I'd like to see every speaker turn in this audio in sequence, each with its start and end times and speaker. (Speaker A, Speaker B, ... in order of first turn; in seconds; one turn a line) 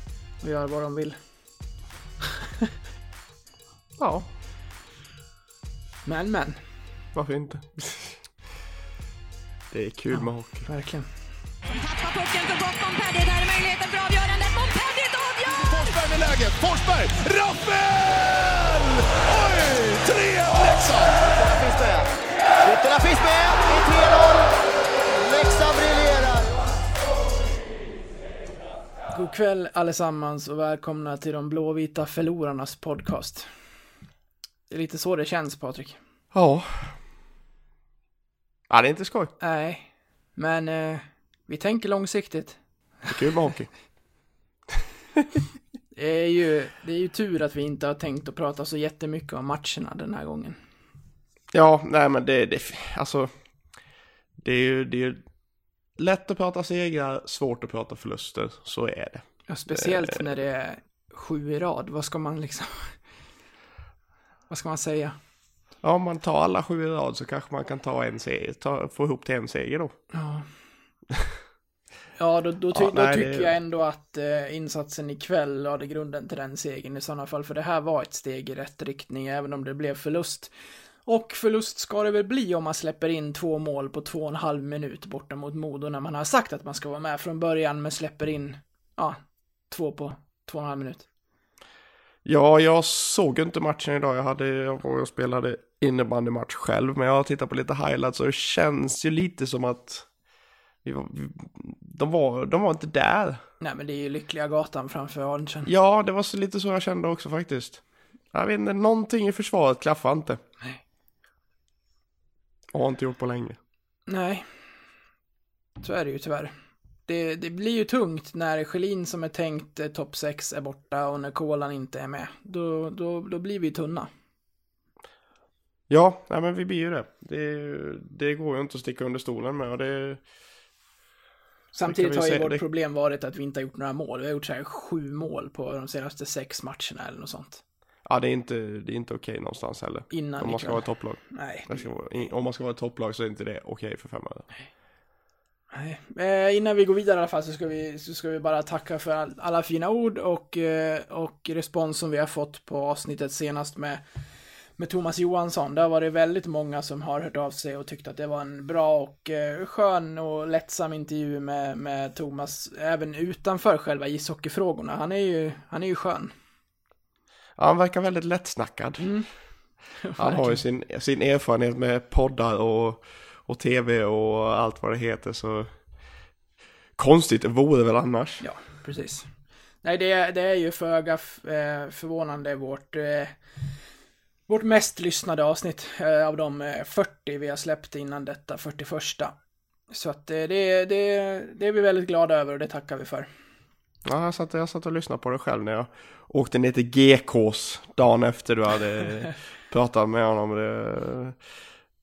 Speaker A: 0.4-1.2
Speaker B: 4.0-4.3
Speaker A: 6.0-6.6
Speaker B: 7.1-8.3
Speaker B: 9.7-10.7
Speaker A: 10.1-11.1
Speaker C: 11.7-15.9
Speaker D: 15.6-22.0
Speaker E: 21.3-22.0
Speaker E: 22.6-24.4
Speaker D: 22.8-24.4
Speaker E: 25.1-26.5
Speaker A: 29.1-33.5
Speaker A: 34.7-36.0
Speaker B: 36.3-36.9
Speaker B: 38.7-39.3
Speaker A: 39.4-42.6
Speaker B: 43.1-43.7
Speaker A: 45.9-50.6
Speaker B: 51.5-53.3
Speaker B: 54.4-55.2
Speaker B: 56.0-60.2
Speaker A: 59.5-63.0
Speaker A: 64.5-65.1
Speaker B: 65.8-70.0
Speaker A: 70.1-70.5
Speaker A: 72.2-80.5
Speaker B: 72.7-73.5
Speaker A: 81.0-89.2
Speaker A: 89.7-91.0
Speaker B: 92.2-100.1
Speaker B: 100.8-103.4
Speaker A: 103.6-105.7
Speaker B: 105.7-110.4
Speaker B: 112.7-113.6
Speaker A: 114.1-114.5
Speaker A: 115.8-116.5
Speaker A: 117.1-124.1
Speaker B: 125.9-130.2
Speaker A: 131.7-137.6
Speaker B: 131.8-132.6
Speaker B: 138.1-144.4
Speaker A: 140.1-141.8
Speaker A: 145.7-154.0
Speaker A: 154.8-166.3
Speaker B: 167.6-169.1
Speaker A: 169.0-169.3
Speaker A: 170.0-170.6
Speaker B: 170.2-175.7
Speaker B: 177.0-178.4
Speaker A: 178.4-179.3
Speaker A: 179.8-183.3
Speaker A: 184.5-189.3
Speaker A: 189.9-193.3
Speaker B: 194.0-201.4